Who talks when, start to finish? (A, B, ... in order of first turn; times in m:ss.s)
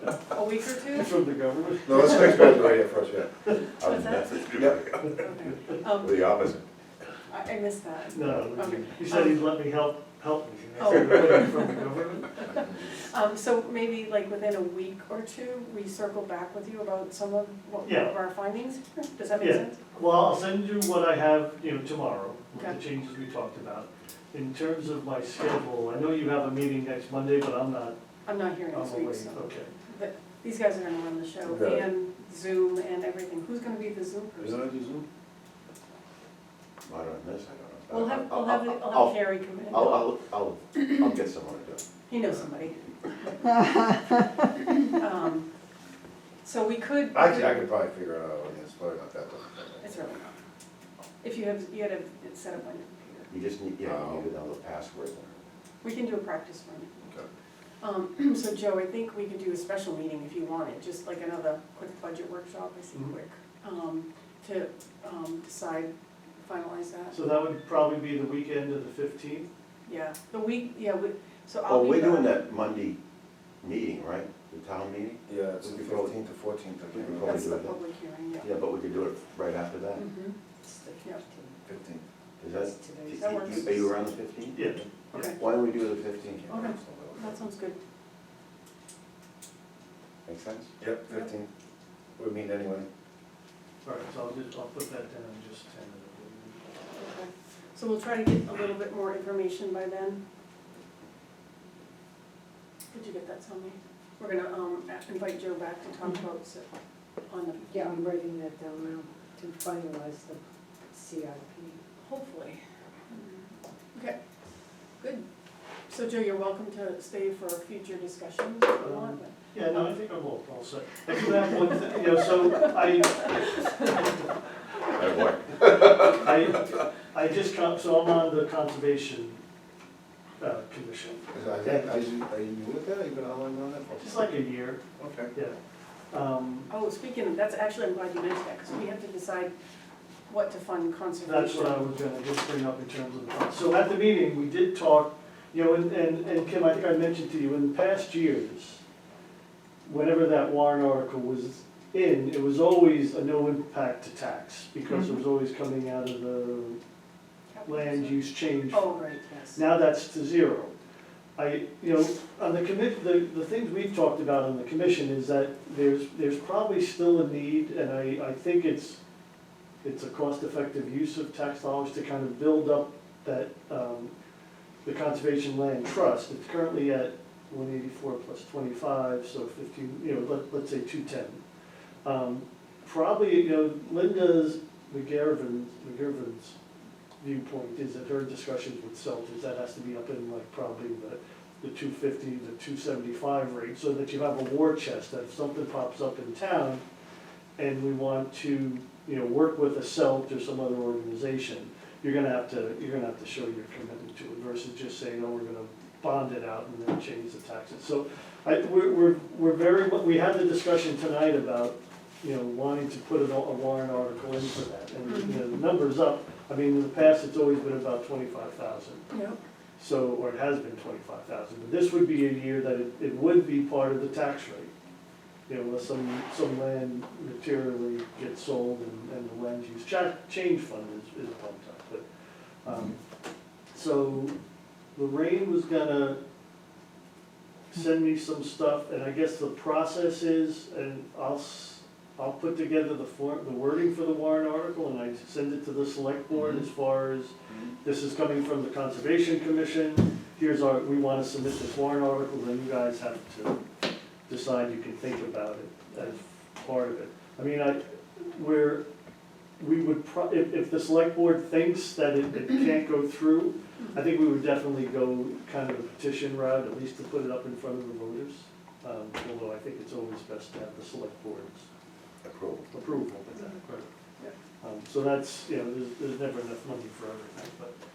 0:00.3-0:01.1 A
0:00.9-0:02.8 B
0:01.8-0:03.3 C
0:03.8-0:05.1 D
0:03.9-0:04.6 A
0:05.1-0:06.3 A
0:06.0-0:06.6 C
0:07.3-0:09.4 A
0:08.1-0:12.5 B
0:10.8-0:11.4 A
0:13.1-0:19.8 A
0:17.8-0:18.3 B
0:19.4-0:28.0 B
0:28.3-0:34.6 A
0:28.6-0:29.8 B
0:31.4-0:31.9 C
0:34.4-0:35.0 C
0:36.9-0:42.5 D
0:37.9-0:40.1 A
0:42.1-0:43.3 A
0:44.9-0:45.5 A
0:46.4-0:47.7 A
0:47.1-0:50.0 C
0:49.8-0:50.4 A
0:51.2-0:53.3 A
0:53.3-0:55.4 D
0:53.8-0:54.2 C
0:55.8-0:57.0 A
0:57.8-1:05.9 A
1:06.4-1:07.2 A
1:07.1-1:09.5 B
1:09.9-1:12.4 A
1:11.7-1:13.0 D
1:13.6-1:16.2 D
1:15.3-1:17.4 C
1:16.9-1:17.8 D
1:17.2-1:18.5 A
1:18.4-1:20.1 D
1:20.0-1:20.4 A
1:20.6-1:21.6 E
1:21.7-1:22.0 C
1:22.4-1:24.7 D
1:22.4-1:23.9 E
1:23.1-1:23.7 A
1:24.5-1:25.3 B
1:25.3-1:27.4 D
1:26.4-1:26.7 C
1:26.5-1:27.8 A
1:30.2-1:30.8 D
1:30.8-1:31.5 C
1:32.2-1:32.9 C
1:33.8-1:36.6 B
1:37.0-1:40.2 A
1:42.9-1:46.7 A
1:47.3-1:47.7 A
1:47.6-1:50.4 E
1:50.9-1:51.8 E
1:52.0-1:52.6 A
1:53.1-1:54.2 A
1:55.0-1:55.3 A
1:55.9-1:59.4 A
1:58.8-2:04.2 B
2:04.9-2:06.3 D
2:05.8-2:09.4 B
2:10.4-2:12.0 B
2:11.3-2:14.2 C
2:14.0-2:14.8 B
2:15.0-2:15.3 C
2:16.1-2:16.8 B
2:16.7-2:19.5 A
2:20.3-2:21.8 A
2:21.2-2:28.8 B
2:29.8-2:36.8 B
2:37.5-2:38.2 A
2:37.6-2:40.7 B
2:38.7-2:39.6 A
2:41.4-2:49.0 B
2:49.8-2:54.1 B
2:54.8-3:01.4 B
3:02.0-3:06.6 B
3:07.2-3:16.8 B
3:17.6-3:39.1 B
3:39.1-3:39.4 A
3:39.8-3:44.7 B
3:45.5-3:52.0 B
3:52.6-3:53.0 B
3:53.7-3:54.4 B
3:54.9-3:56.2 B
3:57.7-4:13.6 B
4:14.3-4:18.8 B
4:19.6-4:31.7 B
4:32.2-4:32.7 D
4:32.7-4:33.9 B
4:34.6-4:37.7 B